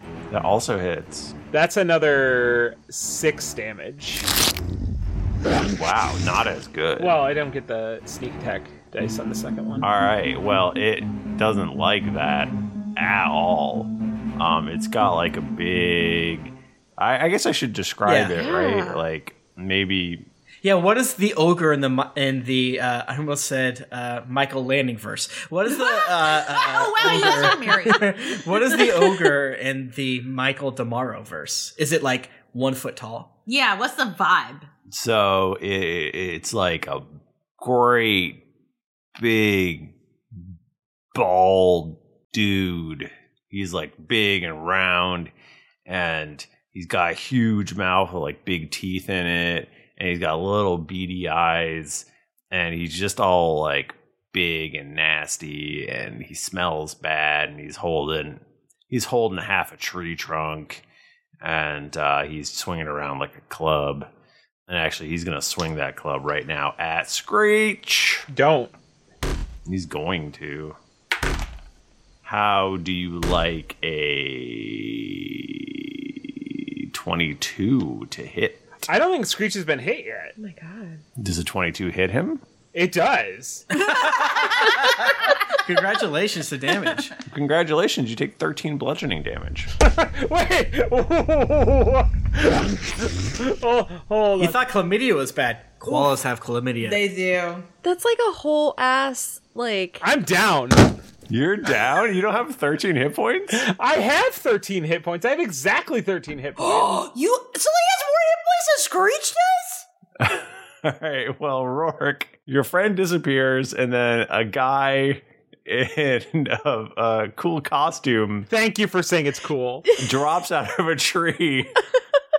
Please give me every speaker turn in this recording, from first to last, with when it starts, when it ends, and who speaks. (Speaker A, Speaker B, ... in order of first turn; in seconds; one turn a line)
Speaker A: 0.3-1.4
Speaker B: 1.5-4.3
Speaker A: 5.7-7.2
Speaker B: 7.0-9.9
Speaker A: 9.8-20.3
Speaker C: 18.1-18.4
Speaker D: 18.3-19.0
Speaker C: 20.6-33.3
Speaker E: 25.7-29.2
Speaker E: 33.5-34.7
Speaker A: 34.9-37.1
Speaker A: 37.6-38.4
Speaker A: 39.2-39.9
Speaker A: 41.1-45.3
Speaker A: 45.9-60.8
Speaker A: 61.4-64.1
Speaker A: 64.7-68.2
Speaker B: 68.3-68.7
Speaker A: 69.7-70.8
Speaker A: 72.2-78.8
Speaker B: 78.9-80.3
Speaker D: 80.4-81.0
Speaker A: 81.2-82.4
Speaker B: 82.7-83.6
Speaker C: 83.9-84.5
Speaker C: 85.5-87.1
Speaker A: 87.3-89.7
Speaker B: 89.8-94.6
Speaker C: 94.4-97.0
Speaker E: 95.9-96.1
Speaker E: 96.8-97.7
Speaker D: 97.8-100.0
Speaker B: 100.0-100.9
Speaker A: 101.3-103.6
Speaker B: 103.5-107.0
Speaker E: 106.6-109.8
Speaker A: 110.2-118.5
Speaker B: 118.5-119.9
Speaker A: 120.0-121.8